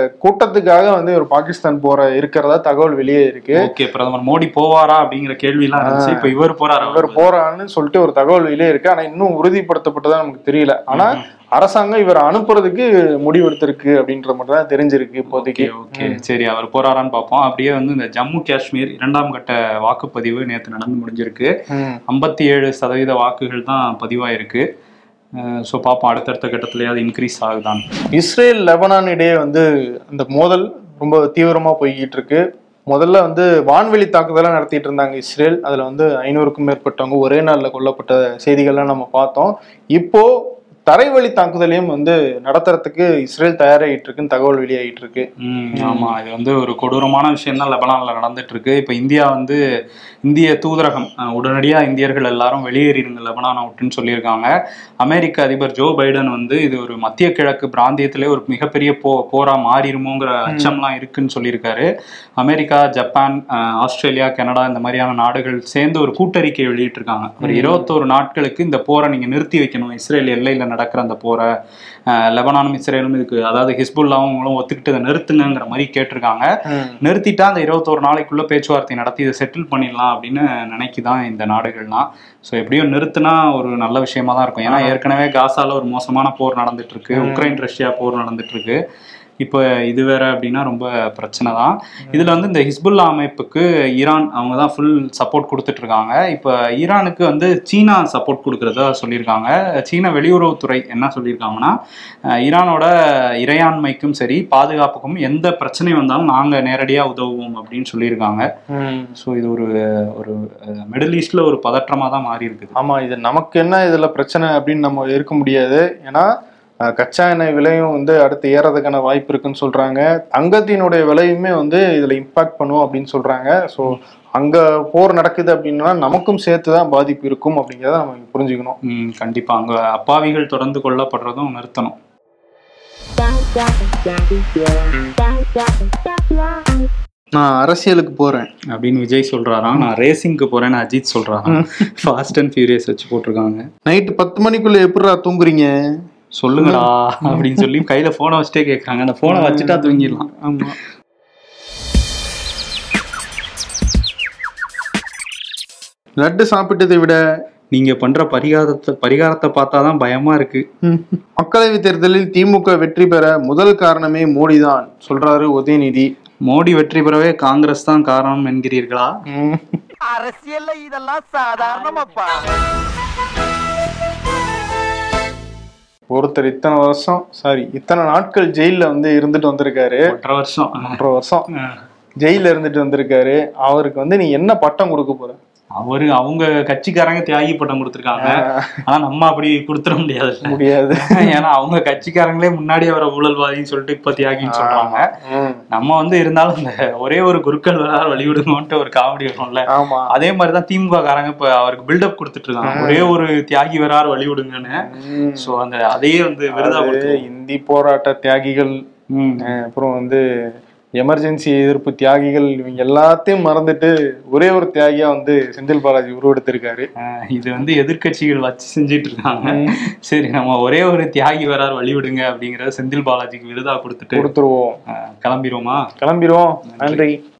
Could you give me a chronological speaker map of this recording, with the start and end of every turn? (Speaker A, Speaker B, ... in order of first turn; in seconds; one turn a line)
Speaker A: 0.2-3.7
Speaker B: 3.5-7.3
Speaker A: 5.8-6.3
Speaker A: 6.8-16.2
Speaker B: 10.9-11.2
Speaker B: 15.3-21.5
Speaker A: 21.7-22.0
Speaker B: 22.1-24.6
Speaker B: 25.4-27.8
Speaker A: 28.1-40.3
Speaker A: 40.9-46.1
Speaker B: 45.4-49.6
Speaker B: 50.2-54.5
Speaker B: 55.0-61.9
Speaker A: 60.5-60.8
Speaker B: 62.4-71.5
Speaker A: 67.4-67.9
Speaker B: 72.1-76.5
Speaker A: 76.7-77.0
Speaker B: 77.0-88.8
Speaker A: 84.7-85.0
Speaker A: 87.1-87.6
Speaker B: 89.4-101.7
Speaker A: 92.1-92.4
Speaker B: 102.3-108.5
Speaker A: 108.7-109.1
Speaker B: 109.2-112.7
Speaker A: 112.8-116.3
Speaker A: 116.8-128.8
Speaker B: 128.8-131.9
Speaker A: 134.9-135.2
Speaker A: 137.3-138.5
Speaker B: 138.7-143.7
Speaker A: 141.5-141.8
Speaker A: 143.9-145.7
Speaker B: 146.3-150.3
Speaker A: 146.6-147.7
Speaker A: 149.3-150.8
Speaker A: 156.2-157.2
Speaker B: 157.7-160.6
Speaker A: 160.8-166.1
Speaker B: 166.4-169.1
Speaker A: 169.3-169.8
Speaker C: 170.0-172.6
Speaker A: 176.1-180.2
Speaker B: 180.1-181.0
Speaker A: 180.8-181.5
Speaker B: 181.6-181.8
Speaker A: 182.2-185.4
Speaker B: 185.8-195.1
Speaker A: 188.2-188.8
Speaker A: 190.4-191.4
Speaker A: 194.4-195.6
Speaker B: 195.7-207.2
Speaker A: 199.7-200.1
Speaker A: 202.6-203.1
Speaker A: 204.7-205.5
Speaker A: 206.5-208.8
Speaker B: 209.1-209.5
Speaker A: 209.4-210.2
Speaker A: 211.0-216.9
Speaker B: 217.0-224.3
Speaker A: 219.4-219.8
Speaker A: 224.1-224.8
Speaker B: 224.9-225.9
Speaker A: 226.0-227.2
Speaker B: 226.7-227.0